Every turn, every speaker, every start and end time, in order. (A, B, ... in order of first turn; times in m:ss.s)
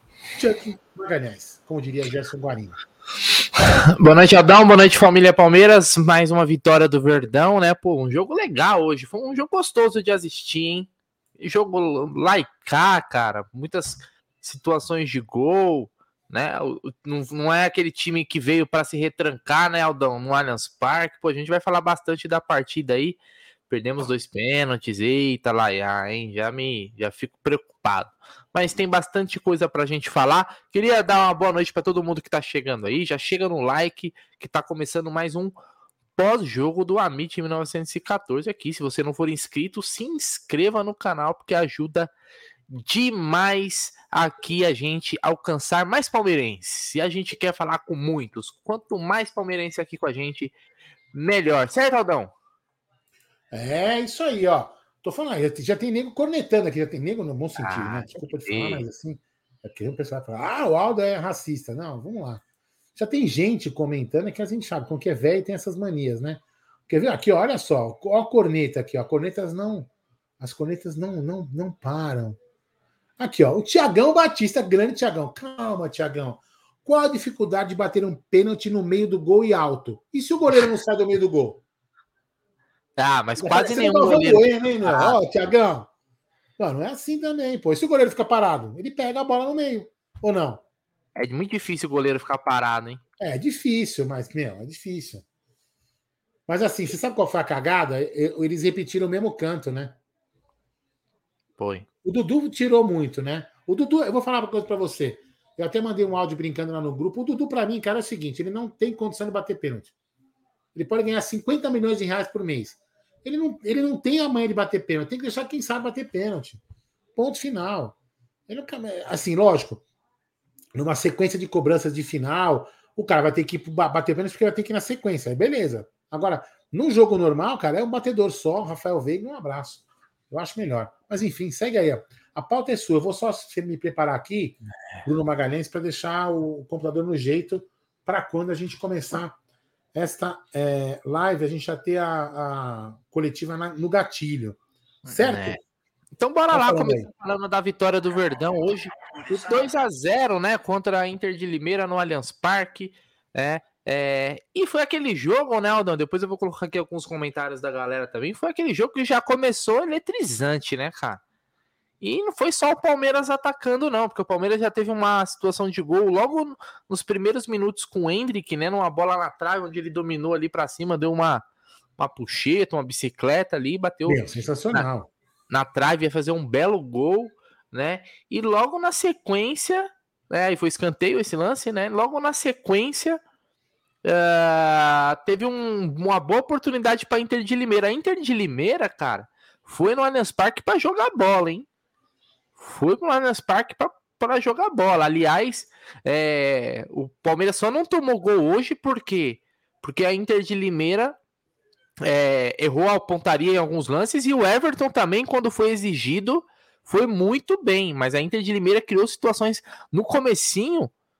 0:00.3-0:02.8 A
0:03.6-0:23.2 B
0:23.7-0:35.5 B
0:36.2-0:42.1 B
0:42.7-0:50.5 B
0:51.1-0:52.3 B
0:53.5-1:02.4 A
0:57.6-0:58.8 B
1:03.0-1:12.4 A
1:13.2-1:21.6 A
1:23.0-1:25.2 B
1:23.4-1:25.9 A
1:26.6-1:30.6 A
1:31.2-1:33.0 B
1:33.2-1:35.2 A
1:36.5-1:40.0 A
1:41.6-1:41.9 B
1:42.0-1:49.9 A
1:50.8-1:56.6 A
1:57.2-1:58.0 A
1:58.5-1:59.8 A
2:00.8-2:19.4 A
2:19.9-2:25.6 A
2:25.1-2:25.6 B
2:26.2-2:41.2 B
2:26.5-2:27.1 A
2:29.3-2:29.7 A
2:42.0-2:51.4 B
2:52.0-2:54.9 B
2:54.1-2:55.1 A
2:55.5-3:03.2 B
3:04.0-3:11.7 B
3:12.6-3:21.2 B
3:22.0-3:30.9 B